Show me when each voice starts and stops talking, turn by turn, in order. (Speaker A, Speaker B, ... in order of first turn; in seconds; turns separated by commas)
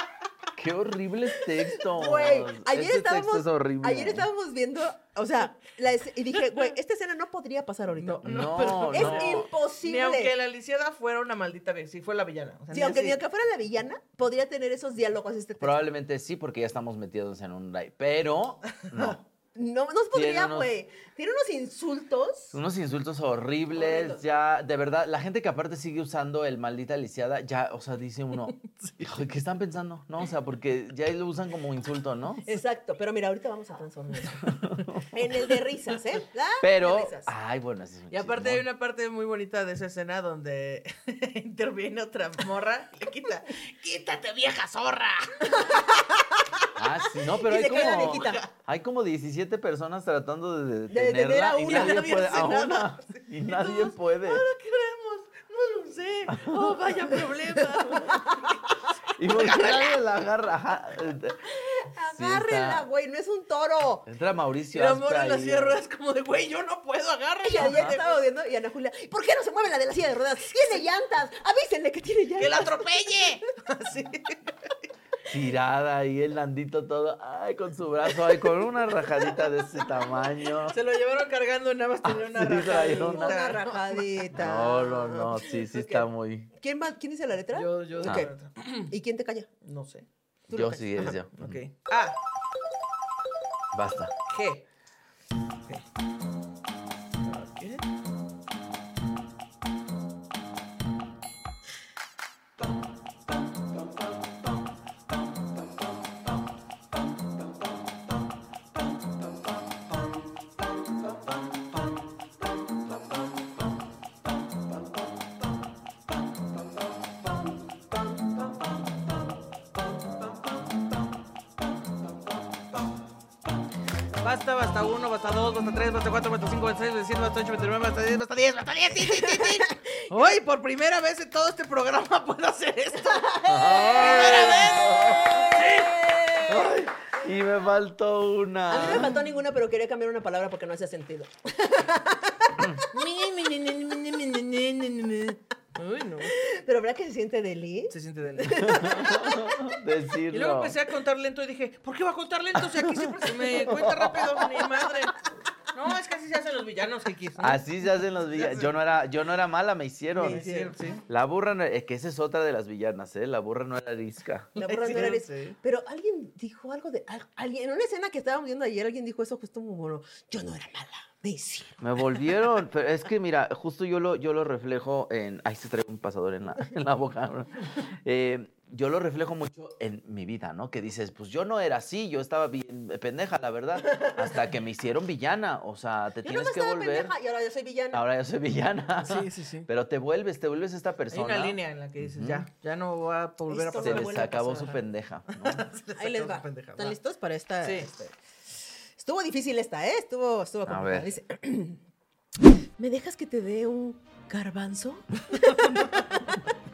Speaker A: 0.6-4.3, Speaker B: 1.8-10.3, Speaker C: 8.0-13.2, Speaker A: 8.2-9.5, Speaker B: 12.7-15.8, Speaker A: 15.6-19.2, Speaker B: 19.6-22.6, Speaker A: 20.1-20.7, Speaker A: 22.5-32.5, Speaker B: 23.8-24.2, Speaker C: 28.8-29.0, Speaker B: 32.4-37.3, Speaker A: 34.5-35.0, Speaker A: 36.6-38.6, Speaker C: 38.1-45.8, Speaker B: 45.4-46.7, Speaker A: 46.8-54.4, Speaker B: 47.2-48.4, Speaker C: 47.7-48.5, Speaker B: 50.9-52.4, Speaker C: 51.6-58.6, Speaker A: 56.3-56.7, Speaker B: 57.9-58.6, Speaker A: 59.2-61.4, Speaker C: 59.2-60.0, Speaker B: 61.5-64.1, Speaker A: 62.1-62.9, Speaker A: 64.1-65.8, Speaker C: 64.7-68.2, Speaker B: 67.4-72.9, Speaker A: 67.6-67.9, Speaker C: 72.4-74.7, Speaker A: 75.3-80.8, Speaker C: 80.6-84.2, Speaker A: 82.0-83.4, Speaker B: 82.6-89.5, Speaker A: 84.3-86.5, Speaker C: 87.5-88.9, Speaker C: 89.6-90.1, Speaker B: 90.5-91.2, Speaker A: 90.5-91.6, Speaker C: 91.3-92.2, Speaker A: 93.7-94.1, Speaker C: 94.3-94.6, Speaker C: 97.2-97.8, Speaker C: 124.2-136.0, Speaker B: 129.0-130.1, Speaker B: 133.2-136.6, Speaker A: 133.4-135.7, Speaker A: 136.4-139.1, Speaker B: 138.7-142.8, Speaker C: 142.9-146.3, Speaker B: 146.3-149.5, Speaker C: 147.9-148.7, Speaker A: 148.6-150.8, Speaker C: 150.3-155.2, Speaker A: 152.6-154.5, Speaker C: 155.7-157.6, Speaker A: 157.4-160.4, Speaker C: 158.3-158.7, Speaker C: 160.2-161.0, Speaker B: 160.2-160.8, Speaker A: 161.1-164.5, Speaker C: 164.6-165.6, Speaker B: 164.6-171.8, Speaker A: 171.8-187.1, Speaker B: 186.2-188.0, Speaker A: 187.9-192.5, Speaker C: 189.0-189.7, Speaker C: 191.1-194.5, Speaker B: 193.5-194.8, Speaker A: 193.8-195.7, Speaker C: 195.3-196.9, Speaker B: 195.9-198.1, Speaker C: 197.6-197.9, Speaker B: 199.0-201.8, Speaker A: 200.7-201.1, Speaker B: 202.8-206.5